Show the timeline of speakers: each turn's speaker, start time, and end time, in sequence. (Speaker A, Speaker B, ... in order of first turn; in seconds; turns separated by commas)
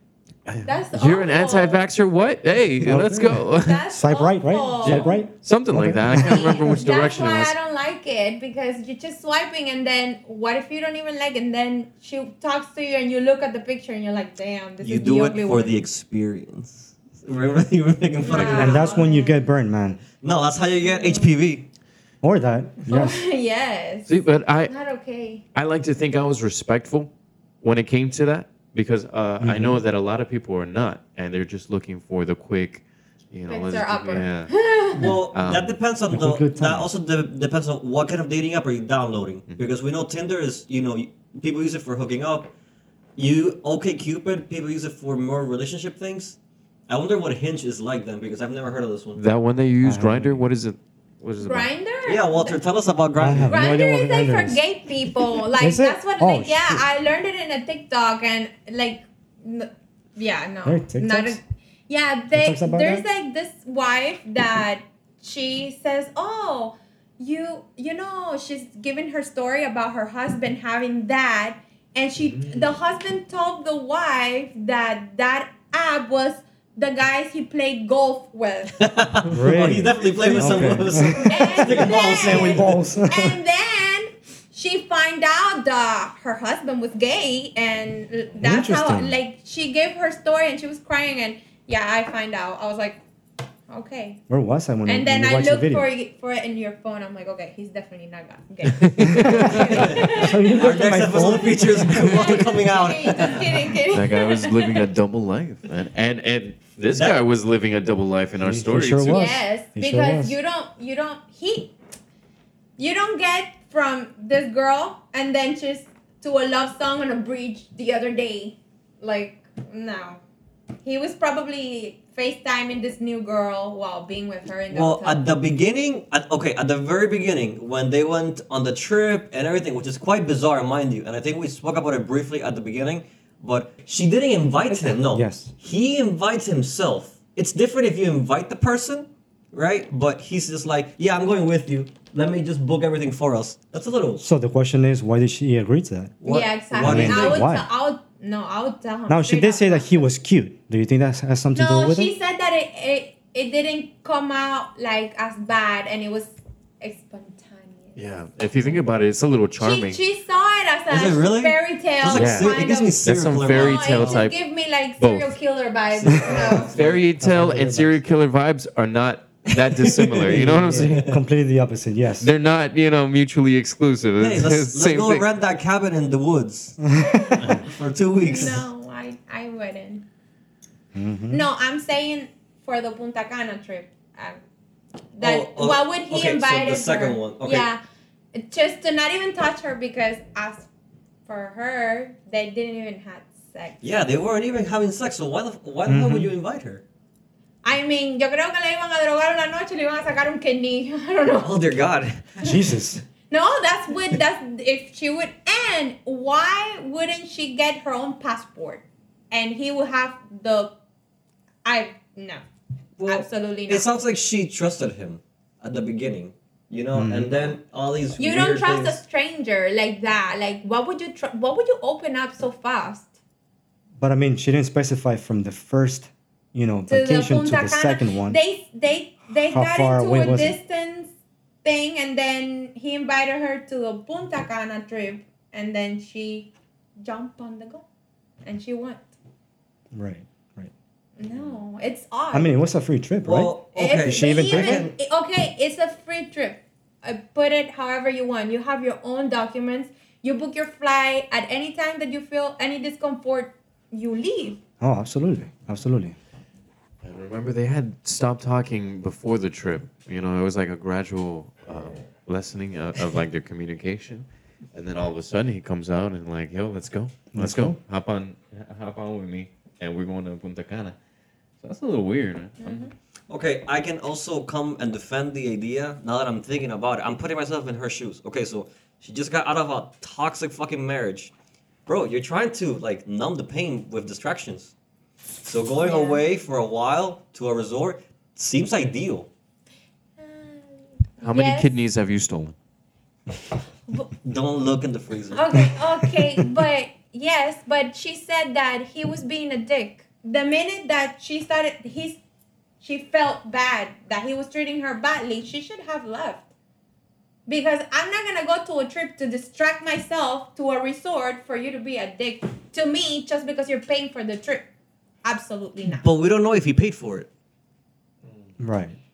Speaker A: 0.5-3.8, Speaker B: 0.6-1.8, Speaker C: 2.8-6.7, Speaker B: 3.5-5.2, Speaker A: 4.8-7.5, Speaker B: 6.2-15.8, Speaker D: 14.8-19.0, Speaker B: 18.2-19.4, Speaker C: 18.3-20.0, Speaker D: 20.2-21.7, Speaker B: 20.8-21.3, Speaker C: 22.2-23.2, Speaker B: 22.9-24.1, Speaker A: 24.1-24.7, Speaker B: 24.7-25.4, Speaker A: 25.5-35.8, Speaker C: 29.4-29.8, Speaker B: 33.5-35.1, Speaker D: 34.9-42.5, Speaker C: 36.1-36.9, Speaker D: 43.1-46.4, Speaker D: 46.9-49.2, Speaker A: 49.1-51.7, Speaker C: 49.8-50.4, Speaker B: 51.4-52.5, Speaker D: 52.0-53.5, Speaker C: 53.2-54.6, Speaker B: 53.5-78.8, Speaker C: 55.5-56.9, Speaker C: 60.6-61.4, Speaker C: 62.3-63.0, Speaker A: 72.3-72.7, Speaker D: 78.8-82.7, Speaker C: 79.3-83.4, Speaker A: 80.4-80.8, Speaker B: 81.2-93.0, Speaker C: 88.4-89.2, Speaker B: 93.7-94.2, Speaker C: 94.3-95.9, Speaker B: 94.8-100.6, Speaker A: 98.8-99.9, Speaker C: 99.1-102.2, Speaker D: 99.5-103.6, Speaker B: 101.9-104.8, Speaker A: 103.9-109.3, Speaker D: 106.9-107.2, Speaker C: 108.4-110.3, Speaker B: 109.1-111.7, Speaker B: 112.8-120.2, Speaker B: 120.8-125.2, Speaker D: 124.7-144.2, Speaker C: 134.7-135.5, Speaker C: 144.2-146.1, Speaker D: 146.2-147.5, Speaker B: 146.2-150.0, Speaker C: 146.8-147.7, Speaker C: 149.1-152.1, Speaker B: 151.5-158.0, Speaker A: 157.9-160.0, Speaker B: 159.6-166.7, Speaker D: 160.9-164.2, Speaker A: 162.1-164.4, Speaker A: 165.0-165.3, Speaker D: 166.0-167.0, Speaker A: 166.6-171.1, Speaker C: 167.2-168.0, Speaker D: 169.7-171.2, Speaker C: 170.3-172.3, Speaker A: 172.2-175.2, Speaker D: 174.2-176.8, Speaker B: 177.1-177.5, Speaker D: 177.4-178.6, Speaker B: 178.2-180.0, Speaker C: 180.9-181.4, Speaker B: 181.3-184.4, Speaker B: 185.1-187.8, Speaker D: 185.2-187.7, Speaker B: 188.3-190.7, Speaker B: 191.2-193.8, Speaker D: 193.8-196.8, Speaker C: 195.9-196.3, Speaker B: 197.6-201.5, Speaker D: 201.4-202.5, Speaker C: 202.4-203.0, Speaker B: 203.3-210.7, Speaker B: 211.6-212.4, Speaker D: 213.0-219.0, Speaker B: 213.1-213.9, Speaker C: 216.9-217.5, Speaker B: 218.2-223.1, Speaker C: 224.0-228.4, Speaker B: 226.9-231.1, Speaker C: 229.3-230.6, Speaker B: 231.6-236.5, Speaker B: 237.0-237.8, Speaker B: 238.4-239.1, Speaker C: 239.9-240.7, Speaker B: 241.2-242.5, Speaker C: 242.3-244.9, Speaker D: 243.2-244.9, Speaker B: 243.7-254.6, Speaker C: 254.8-256.1, Speaker A: 257.0-271.0, Speaker C: 267.3-267.8, Speaker A: 271.6-272.9, Speaker B: 272.6-272.9, Speaker D: 273.3-281.3, Speaker D: 281.9-284.7, Speaker D: 285.4-289.3, Speaker B: 285.8-286.2, Speaker B: 290.2-291.7, Speaker A: 291.2-292.6, Speaker D: 294.2-295.7, Speaker B: 295.3-302.2, Speaker B: 302.8-306.4, Speaker B: 307.5-314.6, Speaker B: 315.2-316.0, Speaker D: 315.9-317.3, Speaker A: 318.2-318.5, Speaker C: 318.6-319.0